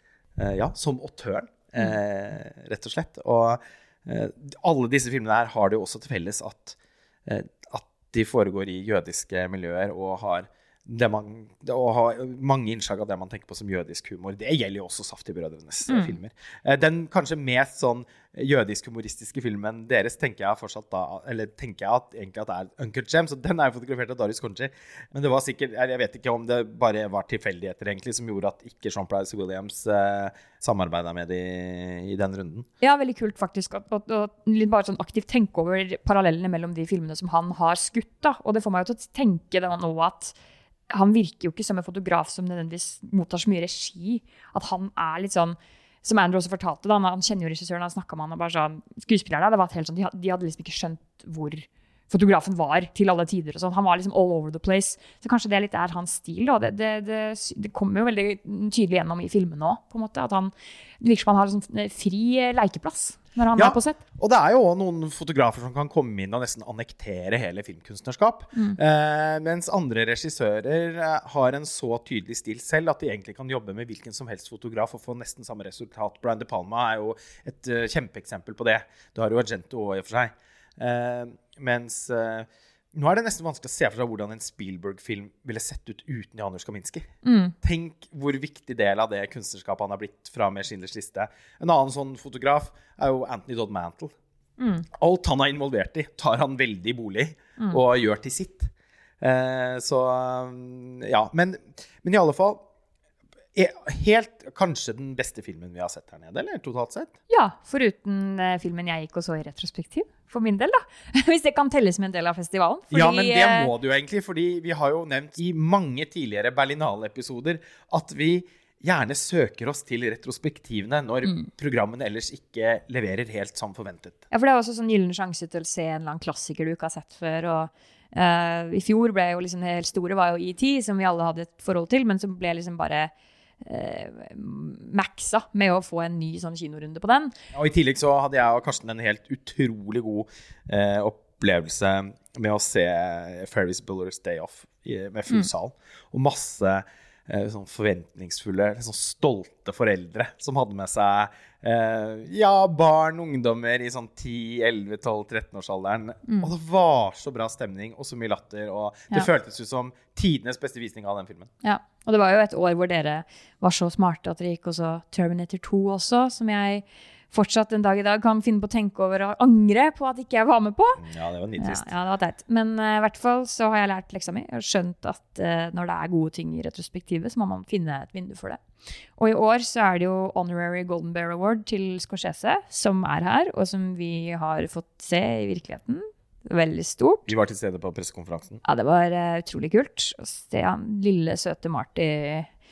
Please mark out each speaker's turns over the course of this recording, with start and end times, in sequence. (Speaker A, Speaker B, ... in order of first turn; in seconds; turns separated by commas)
Speaker A: 0.3-32.7, Speaker B: 15.9-16.1, Speaker B: 32.8-40.3, Speaker B: 40.9-64.0, Speaker A: 63.5-94.1, Speaker B: 87.2-87.5, Speaker B: 94.6-94.8, Speaker A: 94.9-102.6, Speaker A: 103.5-107.2, Speaker B: 107.3-113.7, Speaker A: 112.9-124.2, Speaker B: 124.3-137.3, Speaker A: 137.5-161.5, Speaker B: 161.6-171.0, Speaker A: 171.0-171.9, Speaker B: 171.6-178.6, Speaker B: 179.2-187.3, Speaker A: 187.3-188.6, Speaker B: 188.6-192.5